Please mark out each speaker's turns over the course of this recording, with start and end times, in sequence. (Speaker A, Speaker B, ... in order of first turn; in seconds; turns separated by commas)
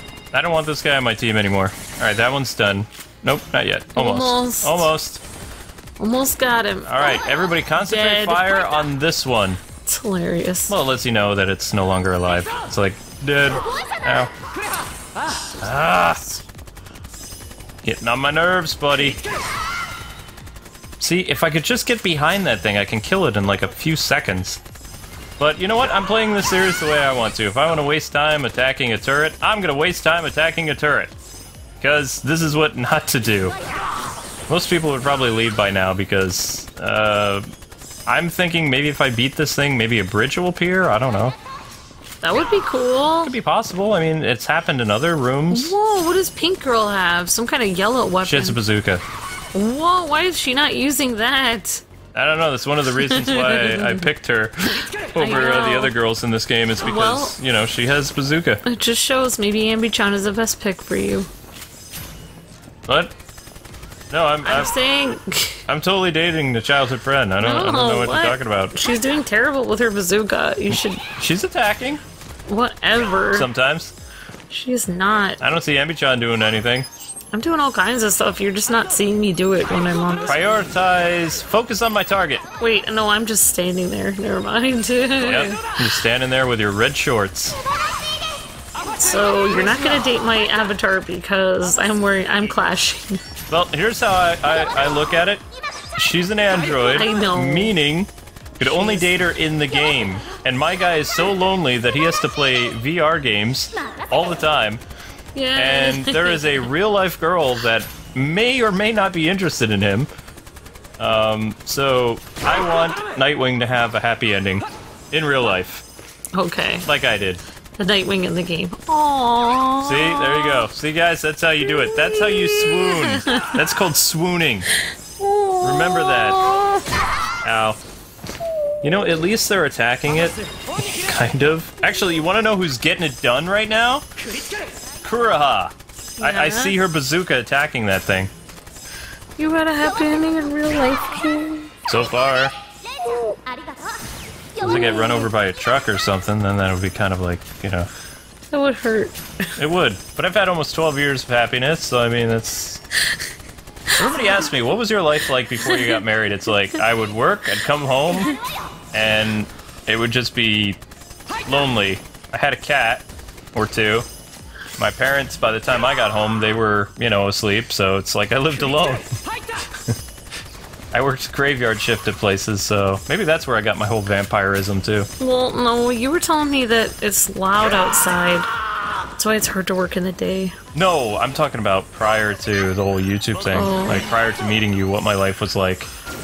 Speaker A: 0.3-5.2, Speaker B: 4.0-4.9, Speaker B: 6.0-6.9, Speaker A: 6.9-9.6, Speaker B: 7.8-8.5, Speaker B: 9.9-10.8, Speaker A: 10.7-14.3, Speaker A: 15.6-16.2, Speaker A: 17.8-19.2, Speaker A: 21.0-24.6, Speaker A: 25.4-31.1, Speaker A: 31.8-33.6, Speaker A: 34.5-37.5, Speaker A: 38.1-41.4, Speaker B: 42.2-43.3, Speaker A: 43.2-45.7, Speaker B: 45.5-48.6, Speaker A: 48.2-49.0, Speaker B: 49.5-51.8, Speaker A: 52.1-58.6, Speaker B: 53.0-54.0, Speaker B: 55.2-55.9, Speaker B: 56.8-57.4, Speaker B: 58.7-61.3, Speaker A: 62.9-63.1, Speaker A: 64.1-64.7, Speaker B: 64.4-65.6, Speaker A: 65.7-68.7, Speaker B: 67.4-71.0, Speaker A: 70.7-72.0, Speaker B: 72.5-73.5, Speaker A: 73.3-73.9, Speaker B: 74.5-75.4, Speaker A: 75.4-76.9, Speaker B: 77.3-80.6, Speaker A: 80.3-82.4, Speaker B: 82.6-85.7, Speaker A: 85.2-87.6, Speaker B: 89.0-93.2, Speaker A: 93.5-95.4, Speaker A: 96.0-104.8, Speaker B: 96.9-97.7, Speaker B: 98.6-99.1, Speaker B: 105.3-106.7, Speaker A: 105.5-110.1, Speaker A: 111.0-115.8, Speaker B: 116.3-116.9, Speaker A: 116.8-117.4, Speaker B: 117.8-120.7, Speaker A: 119.8-124.7, Speaker B: 121.6-123.5, Speaker B: 125.2-126.8, Speaker A: 125.6-126.4, Speaker A: 127.4-127.8, Speaker A: 128.8-134.1, Speaker A: 135.0-138.3, Speaker B: 136.2-136.8, Speaker B: 139.4-141.7, Speaker A: 141.9-142.6, Speaker B: 144.6-145.3, Speaker A: 144.6-147.9, Speaker B: 148.5-149.2, Speaker A: 149.6-152.8, Speaker A: 153.9-158.3, Speaker B: 155.7-156.0, Speaker A: 158.9-160.8, Speaker A: 161.4-164.1, Speaker A: 164.8-169.2, Speaker A: 170.9-175.1, Speaker B: 175.2-178.5, Speaker B: 179.2-180.6, Speaker A: 180.7-185.9, Speaker B: 183.5-184.0